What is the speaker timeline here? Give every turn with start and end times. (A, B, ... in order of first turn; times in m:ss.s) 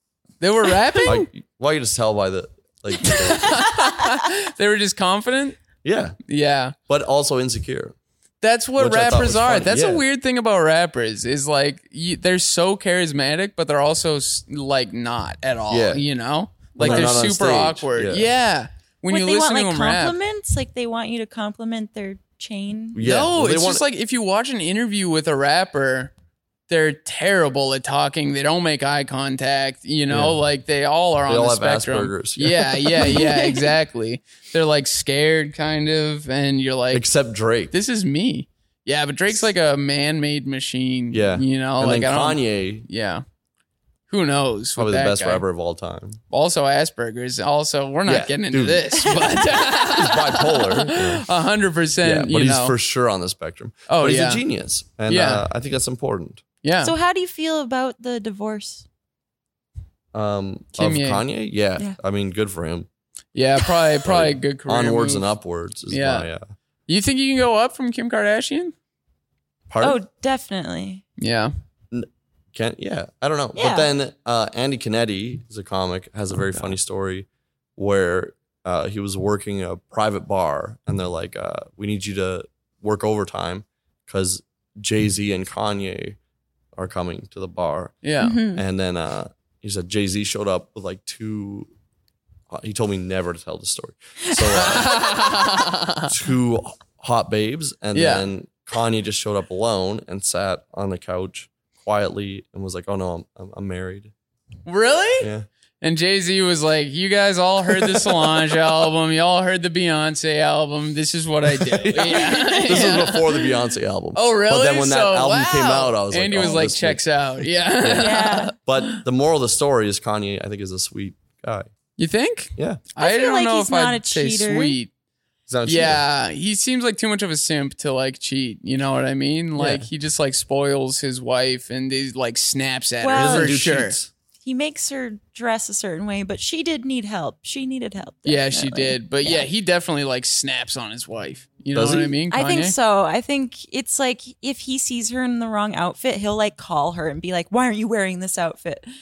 0:00.4-0:01.3 A
0:01.0-0:03.7 B
0:03.0-0:05.6 A
0:05.8-0:06.2 B
0:06.3-0:06.8 A
0:06.9-0:07.9 B
0:08.4-0:20.2 A
0:08.8-0:10.0 B
0:15.7-0:16.0 B
0:16.8-0:18.3 B
0:16.8-0:17.1 C
0:19.1-0:23.0 C
0:22.9-0:23.8 B
0:23.0-0:26.1 A
0:26.7-0:37.1 A
0:30.1-0:30.4 B
0:31.3-0:33.2 B
0:33.0-0:33.7 C
0:36.9-0:37.7 B
0:37.7-0:43.2 A
0:41.1-0:42.9 B
0:44.1-0:45.4 A
0:44.8-0:46.2 B
0:46.3-0:52.8 A
0:48.1-0:49.0 B
0:49.0-0:49.9 C
0:49.9-0:51.2 B
0:52.0-0:56.4 B
0:53.9-0:54.4 A
0:55.1-0:55.5 A
0:56.6-0:56.9 A
0:56.8-0:58.9 C
1:00.1-1:02.9 B
1:00.8-1:01.2 A
1:03.4-1:05.3 A
1:04.0-1:06.4 B
1:05.9-1:06.3 A
1:06.9-1:08.7 A
1:09.7-1:10.0 B
1:09.8-1:11.0 C
1:11.2-1:11.5 A
1:11.9-1:26.2 B
1:13.6-1:13.9 C
1:26.8-1:28.0 B
1:28.0-1:28.4 A
1:28.2-1:28.6 C
1:28.5-1:31.7 B
1:32.5-1:35.2 B
1:34.5-1:36.1 A
1:36.0-1:44.1 B
1:37.9-1:38.2 A
1:44.6-1:53.3 A
1:45.2-1:45.5 B
1:47.7-1:48.8 B
1:51.5-1:57.0 B
1:52.1-1:53.4 C
1:54.2-1:59.0 A
1:57.8-2:01.7 B
1:58.0-1:58.5 C
2:02.0-2:04.9 A
2:02.6-2:02.8 B
2:03.0-2:04.8 C
2:05.5-2:06.0 B
2:05.6-2:14.0 A
2:09.6-2:09.9 B
2:13.0-2:13.6 C
2:13.1-2:14.1 B
2:14.4-2:19.5 C
2:18.2-2:22.8 A
2:21.7-2:22.2 B
2:22.3-2:28.9 C